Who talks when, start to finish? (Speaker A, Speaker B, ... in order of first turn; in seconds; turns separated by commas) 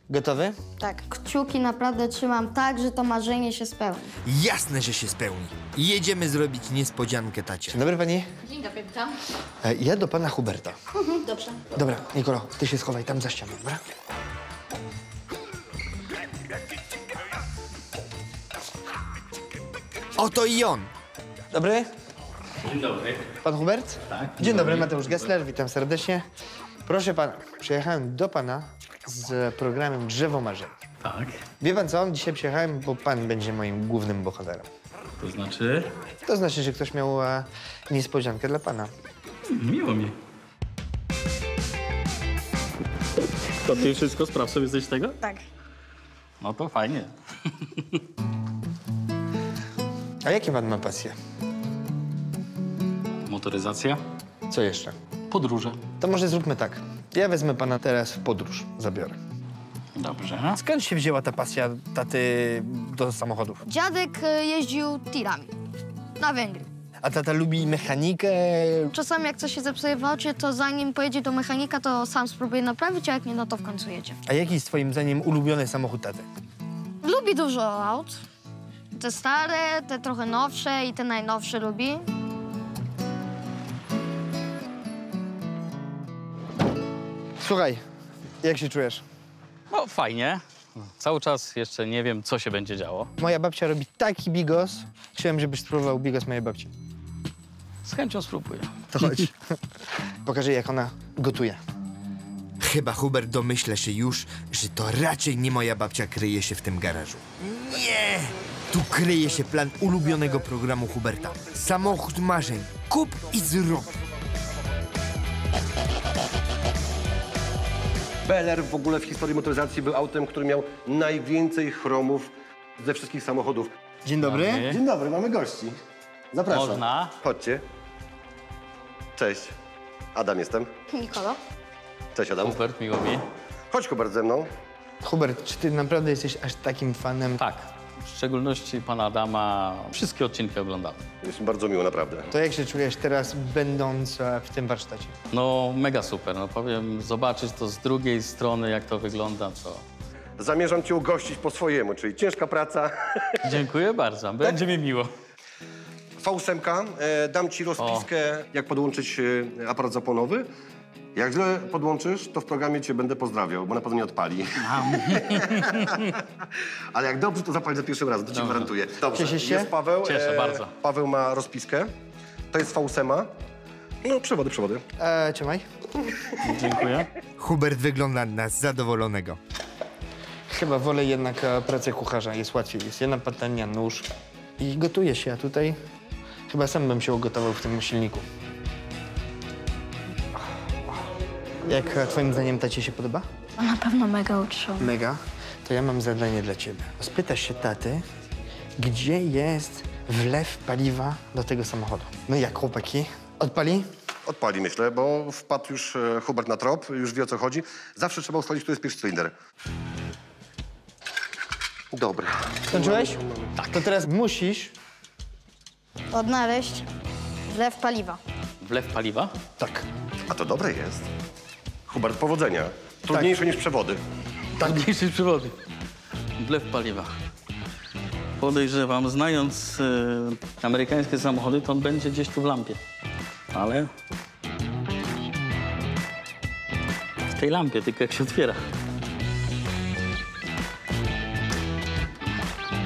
Speaker A: 0.1-0.6, Speaker B: 0.8-4.1, Speaker C: 4.2-7.8, Speaker A: 7.7-8.2, Speaker A: 9.6-10.8, Speaker A: 11.7-13.8, Speaker C: 20.2-20.9, Speaker A: 21.5-21.9, Speaker D: 22.6-23.3, Speaker A: 23.4-26.2, Speaker D: 24.1-25.3, Speaker A: 26.9-30.7, Speaker D: 31.0-31.4, Speaker A: 31.6-34.7, Speaker D: 35.2-35.9, Speaker A: 36.3-38.9, Speaker D: 39.5-40.1, Speaker D: 43.6-45.2, Speaker D: 46.4-48.0, Speaker A: 50.2-51.1, Speaker D: 53.2-54.0, Speaker A: 54.5-54.9, Speaker D: 55.3-55.8, Speaker A: 56.0-59.2, Speaker D: 60.0-60.6, Speaker A: 60.5-63.6, Speaker B: 63.7-65.5, Speaker B: 66.2-66.7, Speaker A: 67.0-68.9, Speaker B: 68.9-74.2, Speaker A: 74.3-76.2, Speaker B: 77.0-78.2, Speaker B: 78.9-82.1, Speaker A: 87.4-87.8, Speaker A: 88.4-89.0, Speaker D: 89.7-93.1, Speaker A: 93.2-96.7, Speaker D: 97.8-99.2, Speaker A: 98.9-99.3, Speaker A: 100.2-101.6, Speaker C: 102.6-113.9, Speaker E: 118.2-123.7, Speaker A: 124.0-124.7, Speaker D: 124.2-124.8, Speaker E: 124.6-125.8, Speaker E: 126.3-127.6, Speaker D: 126.5-127.1, Speaker E: 129.2-129.6, Speaker E: 130.1-130.7, Speaker B: 130.9-131.4, Speaker E: 132.1-132.6, Speaker D: 132.4-133.2, Speaker E: 133.7-134.5, Speaker A: 135.0-137.5, Speaker D: 137.4-141.0, Speaker E: 141.2-142.3, Speaker A: 142.3-145.1, Speaker D: 145.3-149.8, Speaker E: 150.4-153.4, Speaker D: 153.4-155.1, Speaker E: 156.2-160.5, Speaker D: 157.8-158.1, Speaker E: 161.1-171.9, Speaker D: 164.6-166.1, Speaker D: 168.3-168.7, Speaker A: 169.1-169.7, Speaker D: 170.0-170.7, Speaker E: 172.5-173.3, Speaker E: 174.0-174.8, Speaker A: 175.0-175.6, Speaker D: 176.4-177.1, Speaker C: 177.4-179.4, Speaker A: 180.5-184.1, Speaker A: 184.6-185.8, Speaker A: 186.5-188.2, Speaker A: 191.7-193.2, Speaker B: 193.6-194.9, Speaker A: 194.8-198.0, Speaker A: 198.8-203.9, Speaker E: 204.3-209.3, Speaker E: 211.9-213.5, Speaker A: 212.7-214.7, Speaker D: 213.6-213.8, Speaker B: 216.1-216.9, Speaker B: 217.5-218.2, Speaker D: 218.6-219.3, Speaker A: 219.6-219.8, Speaker E: 220.3-221.1, Speaker E: 221.9-224.0, Speaker A: 223.1-223.4, Speaker D: 224.6-225.6, Speaker D: 226.4-227.1, Speaker D: 228.4-232.8, Speaker D: 233.5-233.9, Speaker D: 237.3-238.6